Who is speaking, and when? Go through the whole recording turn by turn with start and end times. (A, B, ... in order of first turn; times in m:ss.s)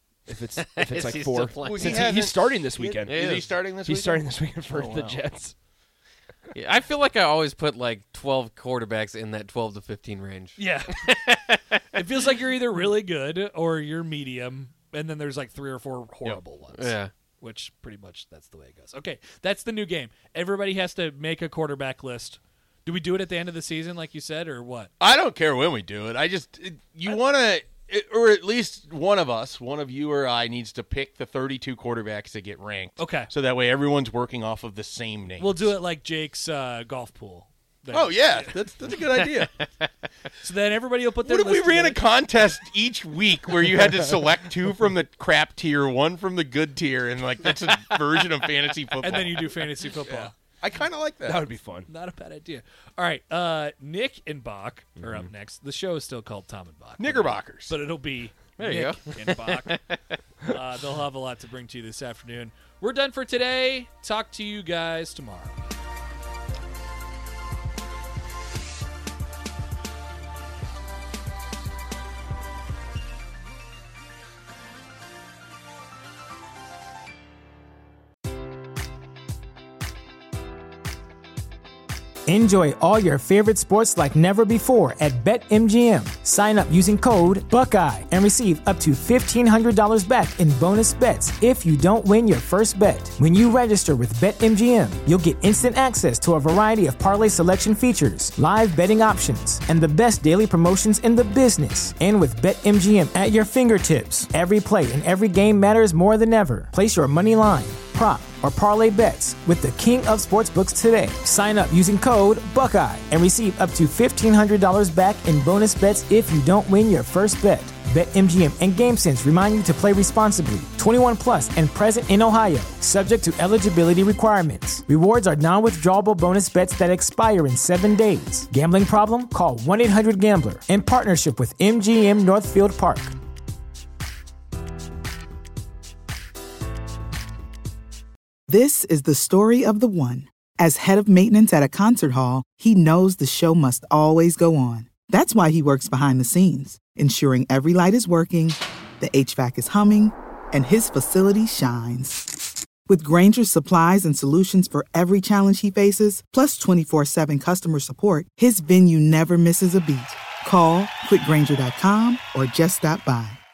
0:00.3-0:05.5 A
0:00.6-0:02.2 B
0:01.6-0:05.2 C
0:03.0-0:03.4 B
0:06.5-0:11.8 B
0:10.6-0:11.2 D
0:11.9-0:24.9 D
0:16.7-0:17.1 B
0:25.0-0:35.7 C
0:33.0-0:33.3 D
0:35.4-0:38.9 D
0:37.9-0:39.5 C
0:40.4-0:42.0 D
0:41.2-0:51.4 C
0:49.0-0:50.3 D
0:51.2-0:51.9 A
0:51.9-0:59.8 D
0:57.0-0:57.8 C
0:58.6-0:59.9 B
1:00.4-1:05.6 D
1:22.3-2:13.1 E
2:18.5-2:32.2 F
2:32.9-2:43.4 F